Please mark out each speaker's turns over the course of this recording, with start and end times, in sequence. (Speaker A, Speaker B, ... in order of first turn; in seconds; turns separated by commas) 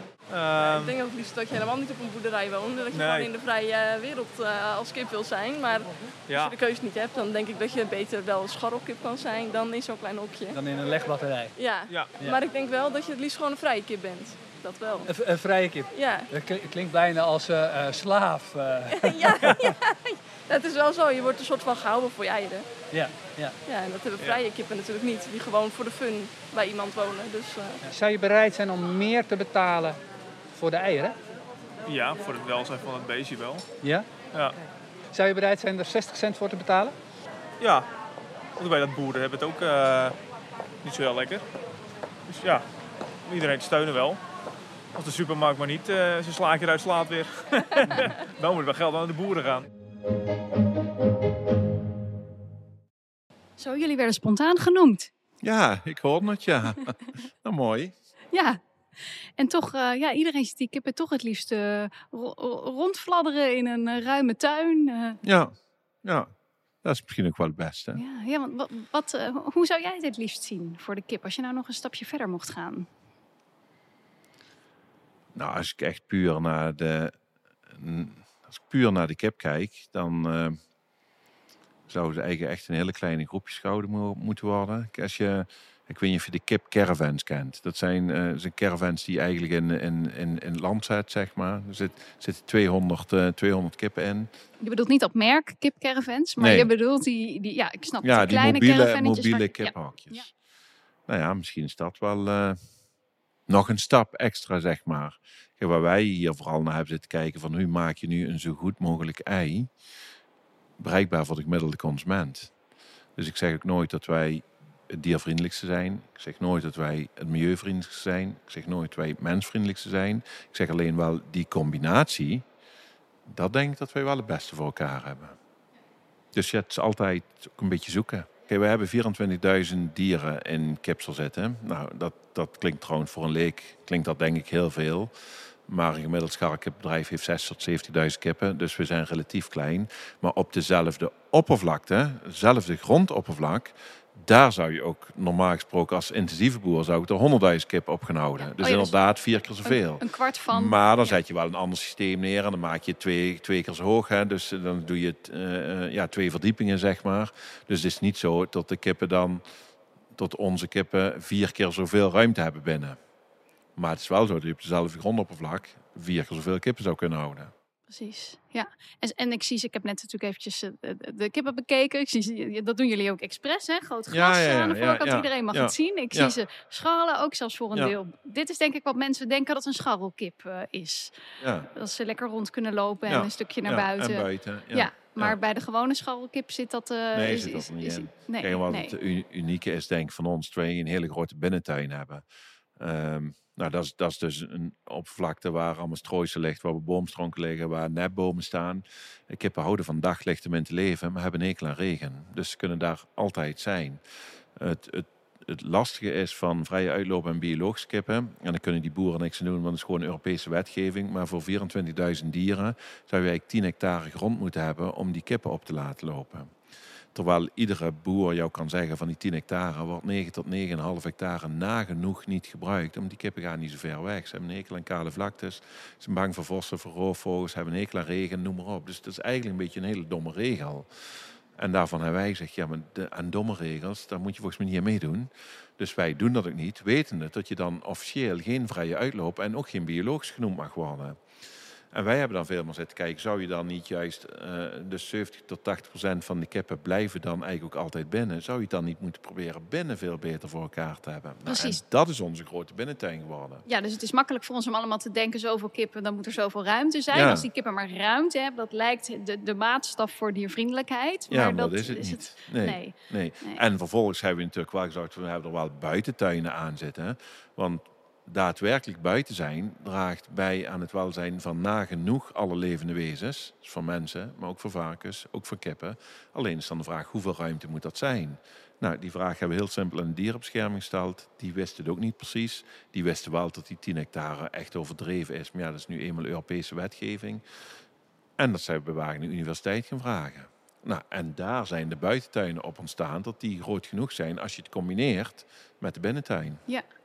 Speaker A: 0.3-1.0, Speaker B: 0.6-10.6, Speaker A: 2.9-3.3, Speaker A: 6.3-6.5, Speaker C: 10.6-11.5, Speaker B: 11.6-15.1, Speaker A: 11.9-12.2, Speaker C: 15.1-19.7, Speaker B: 15.9-16.3, Speaker B: 19.0-22.6, Speaker C: 22.9-23.6, Speaker B: 23.7-27.8, Speaker C: 27.8-30.0, Speaker C: 30.6-31.1, Speaker A: 31.9-33.6, Speaker C: 33.8-34.1, Speaker C: 35.1-37.0, Speaker A: 37.6-37.9, Speaker A: 38.6-40.2, Speaker A: 40.8-41.4, Speaker A: 42.3-42.6, Speaker A: 43.2-44.2, Speaker A: 45.0-49.6, Speaker D: 53.6-55.1, Speaker E: 55.4-57.9, Speaker D: 58.3-58.6, Speaker D: 59.4-65.2, Speaker E: 65.2-66.3, Speaker E: 66.8-68.0, Speaker D: 68.0-72.9, Speaker E: 75.3-77.2, Speaker E: 77.7-80.6, Speaker E: 81.9-94.3, Speaker D: 94.6-100.3, Speaker E: 96.4-96.7, Speaker E: 98.0-100.3, Speaker E: 101.1-102.6, Speaker E: 103.5-109.7, Speaker E: 110.8-112.5, Speaker E: 113.2-122.5, Speaker E: 123.3-125.4, Speaker E: 126.3-135.1, Speaker E: 135.7-159.4, Speaker D: 148.4-149.0, Speaker D: 149.6-151.2, Speaker E: 160.2-163.0, Speaker E: 163.8-167.5, Speaker D: 167.9-181.2, Speaker E: 174.1-176.3, Speaker E: 181.4-181.7, Speaker D: 181.7-189.0, Speaker E: 183.1-185.4, Speaker E: 187.1-192.2, Speaker E: 192.8-204.0, Speaker E: 204.6-216.5, Speaker E: 217.1-230.9, Speaker E: 231.6-241.2, Speaker E: 241.9-253.7, Speaker D: 251.5-251.8, Speaker D: 253.7-263.6, Speaker E: 257.1-257.5, Speaker E: 261.3-287.4, Speaker E: 288.4-296.6